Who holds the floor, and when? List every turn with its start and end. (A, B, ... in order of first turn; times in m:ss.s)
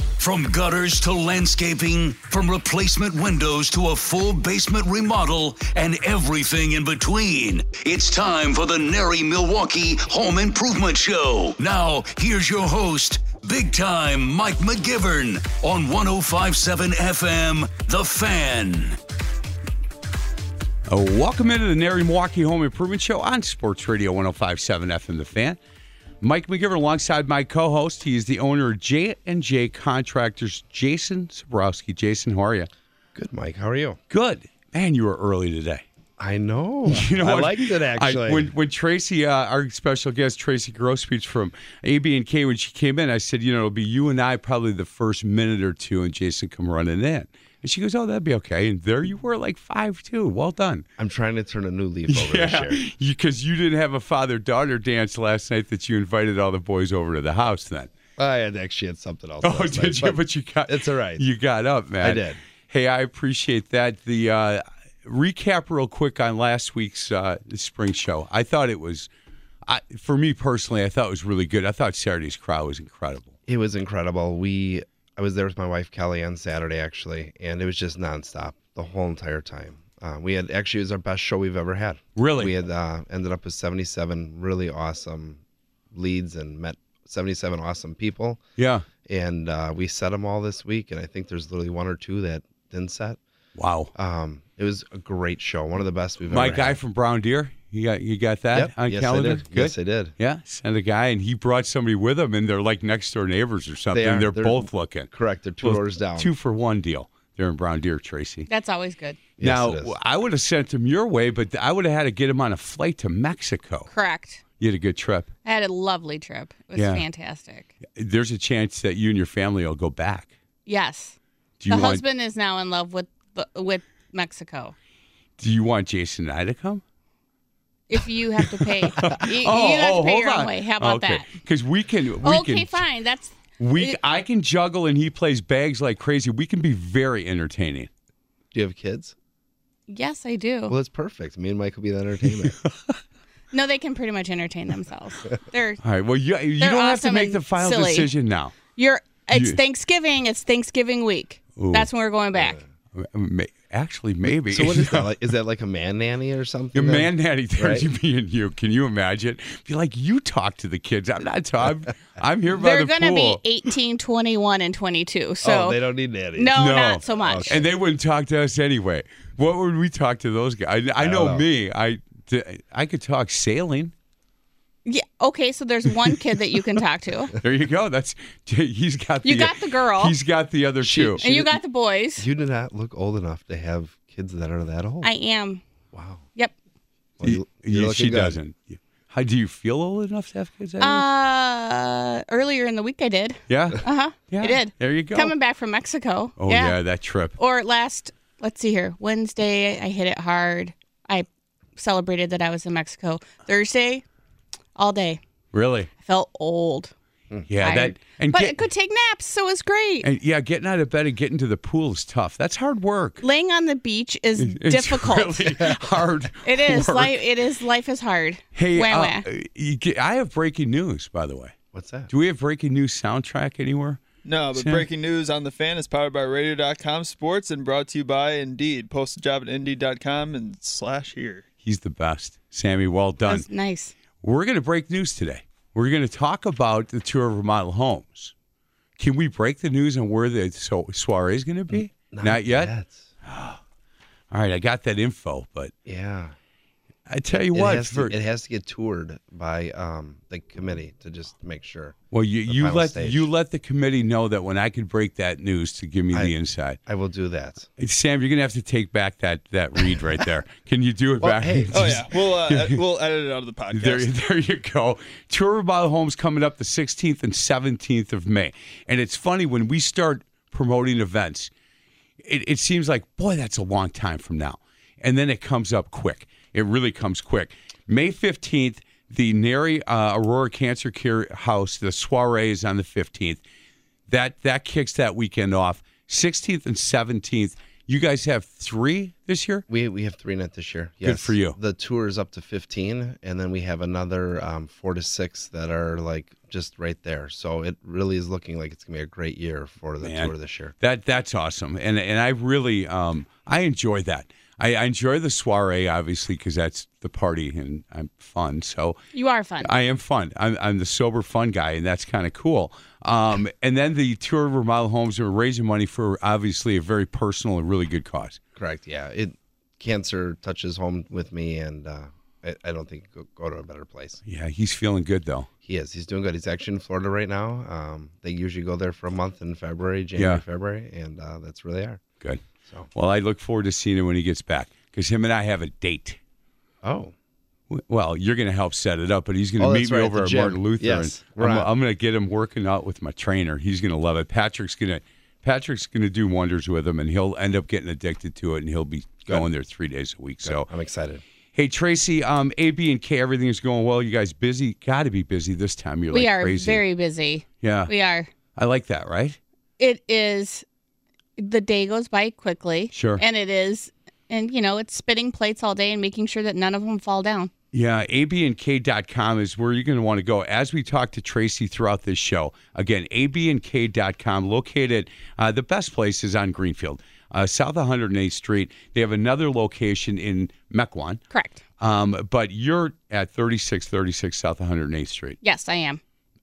0:00.2-0:19.0 A
0:20.9-0:25.6 B
0:26.2-0:32.7 B
0:33.2-0:34.0 C
0:34.1-0:35.8 B
0:36.2-0:38.5 C
0:36.9-0:50.8 B
0:51.0-0:52.8 C
0:52.1-0:57.9 B
0:58.2-1:01.2 C
0:59.4-1:09.1 B
1:02.0-1:02.4 C
1:09.7-1:13.3 B
1:13.5-1:28.4 C
1:22.2-1:22.5 B
1:28.6-1:28.9 B
1:29.0-1:33.2 C
1:33.6-1:33.9 B
1:34.0-1:36.8 C
1:36.3-1:45.1 B
1:38.5-1:40.1 C
1:43.9-1:46.3 C
1:45.6-1:48.5 B
1:48.5-1:49.2 D
1:49.4-1:50.0 C
1:49.4-1:53.9 B
1:53.9-1:54.4 D
1:54.6-1:55.3 B
1:55.4-1:57.7 D
1:56.8-1:57.1 B
1:58.0-2:00.3 B
2:00.7-2:01.2 D
2:01.6-2:02.0 B
2:01.7-2:04.8 D
2:05.4-2:06.8 B
2:07.9-2:11.3 D
2:08.4-2:12.8 B
2:12.2-2:14.0 D
2:13.6-2:17.9 B
2:18.5-2:19.2 C
2:19.9-2:20.8 D
2:20.7-2:22.6 C
2:22.4-2:23.0 B
2:23.5-2:25.8 D
2:25.8-2:28.6 B
2:26.6-2:28.1 D
2:28.8-2:32.6 D
2:29.3-2:29.6 B
2:31.6-2:31.9 B
2:32.4-2:32.6 C
2:32.9-2:35.1 B
2:34.5-2:37.9 C
2:36.7-2:43.4 B
2:42.5-2:45.8 D
2:45.4-2:47.6 C
2:46.4-2:47.6 D
2:46.6-2:53.9 B
2:51.0-2:51.5 C
2:54.8-2:57.3 D
2:57.4-3:01.6 B
2:59.2-3:00.2 D
3:00.8-3:01.2 C
3:01.2-3:02.3 D
3:02.2-3:05.1 C
3:05.0-3:05.6 D
3:05.9-3:06.3 C
3:07.2-3:08.4 C
3:07.2-3:11.0 B
3:10.8-3:16.8 D
3:13.5-3:15.3 B
3:16.4-3:17.4 B
3:17.4-3:24.0 D
3:24.8-3:25.2 D
3:25.5-3:25.9 B
3:26.0-3:26.9 D
3:27.5-3:28.6 B
3:27.6-3:30.1 D
3:30.0-3:33.2 B
3:33.2-3:35.8 D
3:34.4-3:37.2 B
3:36.4-3:39.2 D
3:38.6-3:41.6 B
3:41.7-3:42.1 C
3:42.1-3:44.9 B
3:44.2-3:51.4 E
3:51.6-3:53.5 B
3:53.3-3:53.9 D
3:54.2-3:58.3 B
3:59.0-4:02.7 B
4:01.7-4:03.1 C
4:03.2-4:03.6 B
4:04.3-4:05.7 B
4:05.9-4:06.4 C
4:07.1-4:08.1 B
4:07.3-4:13.3 C
4:12.1-4:16.8 B
4:16.9-4:17.7 C
4:17.8-4:22.8 B
4:21.2-4:22.0 C
4:21.7-4:24.1 E
4:23.7-4:31.5 B
4:32.2-4:43.4 B
4:44.1-4:49.6 B
4:49.7-5:00.7 C
4:51.0-4:51.6 B
5:00.0-5:09.0 B
5:09.1-5:09.7 D
5:09.6-5:18.4 B
5:18.6-5:24.2 C
5:24.3-5:25.5 B
5:25.6-5:32.0 C
5:30.2-5:30.4 B
5:32.9-5:36.2 B
5:36.8-5:37.1 C
5:37.7-5:50.7 B
5:39.6-5:41.7 C
5:50.4-5:51.2 C
5:51.6-5:56.8 B
5:56.1-5:58.3 D
5:57.6-5:57.9 B
5:58.6-5:59.4 B
5:59.8-6:00.6 D
6:01.4-6:07.5 D
6:02.9-6:03.2 B
6:07.7-6:21.2 B
6:21.3-6:21.6 D
6:21.8-6:25.4 B
6:25.4-6:26.0 D